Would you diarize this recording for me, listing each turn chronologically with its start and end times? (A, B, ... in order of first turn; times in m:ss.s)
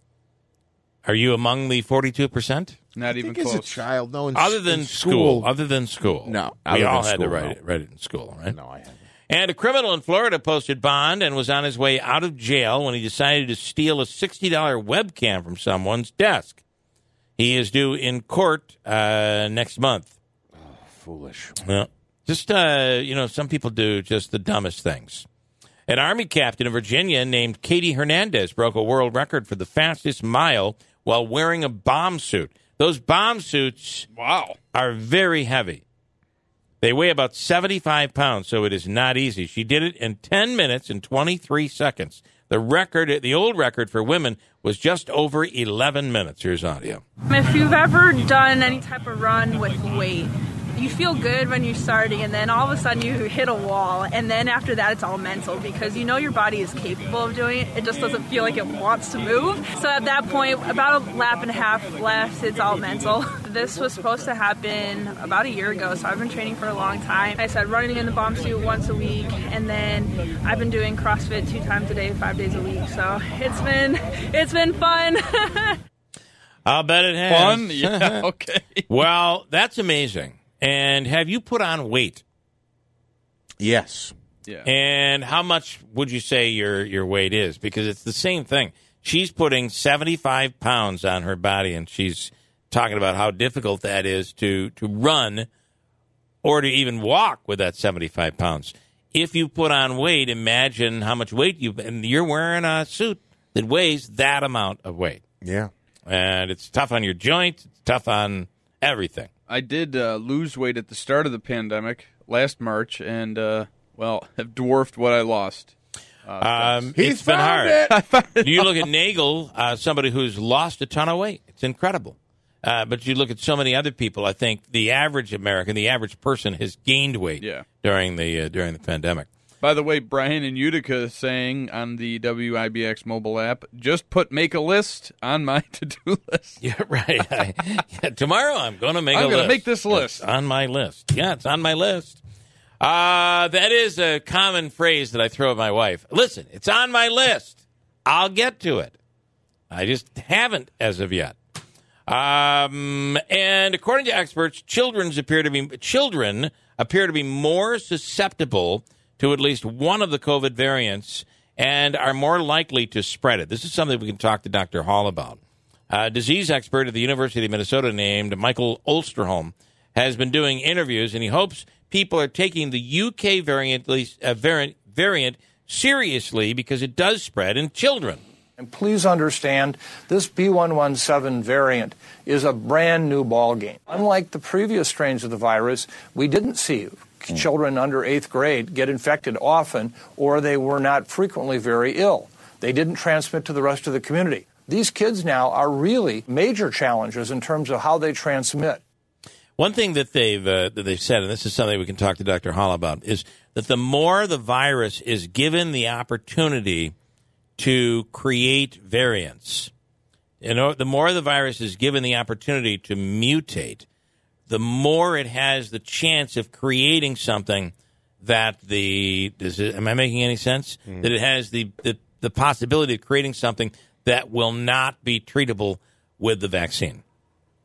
0:01.0-0:02.8 A
0:03.0-0:03.8 B
0:03.1-0:05.5 C
0:04.4-0:08.6 A
0:06.2-0:07.6 C
0:08.5-0:09.0 C
0:09.3-0:16.6 A
0:17.4-0:20.1 A
0:20.6-0:21.6 C
0:21.6-0:25.3 A
0:25.9-0:34.1 A
0:34.1-0:34.6 B
0:34.7-0:35.8 A
0:36.8-0:47.0 A
0:47.3-1:15.8 D
1:16.6-1:18.2 A
1:17.3-1:18.8 B
1:18.9-1:22.2 A
1:23.6-1:24.1 C
1:24.6-1:35.5 A
1:36.4-1:45.2 A
1:45.4-1:45.7 C
1:46.1-1:49.3 A
1:49.5-1:57.0 B
1:56.4-1:57.9 A
1:57.0-1:58.0 C
1:57.8-1:58.8 B
1:58.4-2:09.3 A
2:07.4-2:07.6 B
2:09.6-2:16.6 B
2:16.6-2:22.2 A
2:19.1-2:20.3 B
2:22.8-2:29.0 A
2:29.7-2:31.4 A
2:32.1-2:58.2 A
2:58.6-3:18.8 E
3:19.6-3:26.9 A
3:27.6-3:29.7 A
3:30.4-3:33.9 A
3:34.5-3:47.0 A